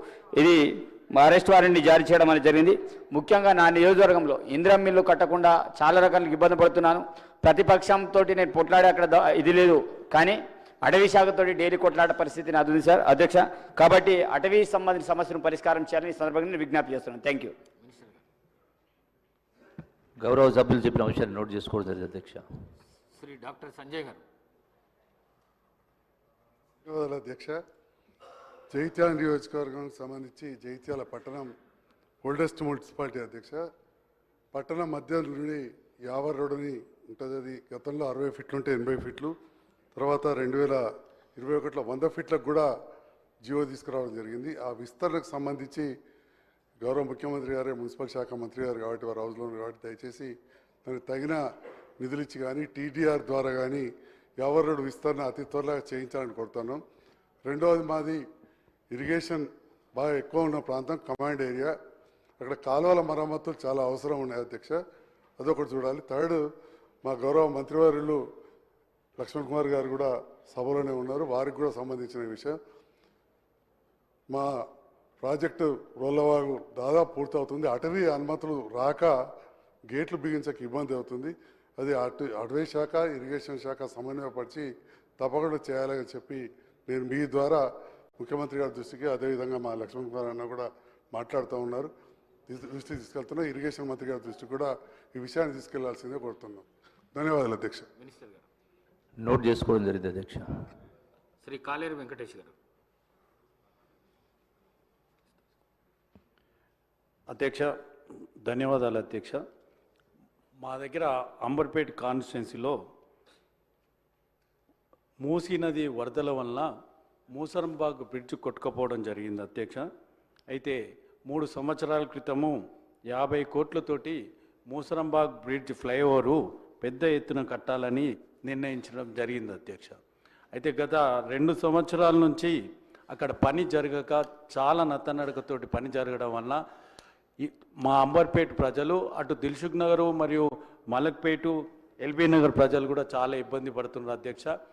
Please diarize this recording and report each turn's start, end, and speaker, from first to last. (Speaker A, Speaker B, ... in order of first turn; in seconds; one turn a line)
Speaker A: 0.4-17.5
Speaker B: 17.8-18.2
Speaker C: 20.2-22.4
Speaker B: 23.1-24.2
Speaker D: 26.8-27.6
Speaker D: 28.7-31.5
Speaker D: 32.2-33.7
Speaker D: 34.5-39.3
Speaker D: 39.9-40.8
Speaker D: 41.4-42.7
Speaker D: 43.4-45.9
Speaker D: 46.8-50.3
Speaker D: 50.8-51.4
Speaker D: 52.0-53.9
Speaker D: 54.4-56.8
Speaker D: 57.4-58.2
Speaker D: 58.9-61.7
Speaker D: 62.4-64.8
Speaker D: 65.4-66.4
Speaker D: 67.0-68.2
Speaker D: 69.2-72.6
Speaker D: 74.3-74.6
Speaker D: 75.2-79.2
Speaker D: 79.9-84.7
Speaker D: 85.2-87.6
Speaker D: 88.2-91.9
Speaker D: 92.5-97.9
Speaker B: 98.0-98.5
Speaker C: 99.2-100.4
Speaker B: 101.4-102.5
Speaker E: 107.3-107.8
Speaker E: 108.4-109.4
Speaker E: 110.6-112.8
Speaker E: 115.2-116.7
Speaker E: 117.3-119.8
Speaker E: 120.5-122.6
Speaker E: 123.1-130.0
Speaker E: 130.5-132.6
Speaker E: 133.1-136.6
Speaker E: 137.4-144.5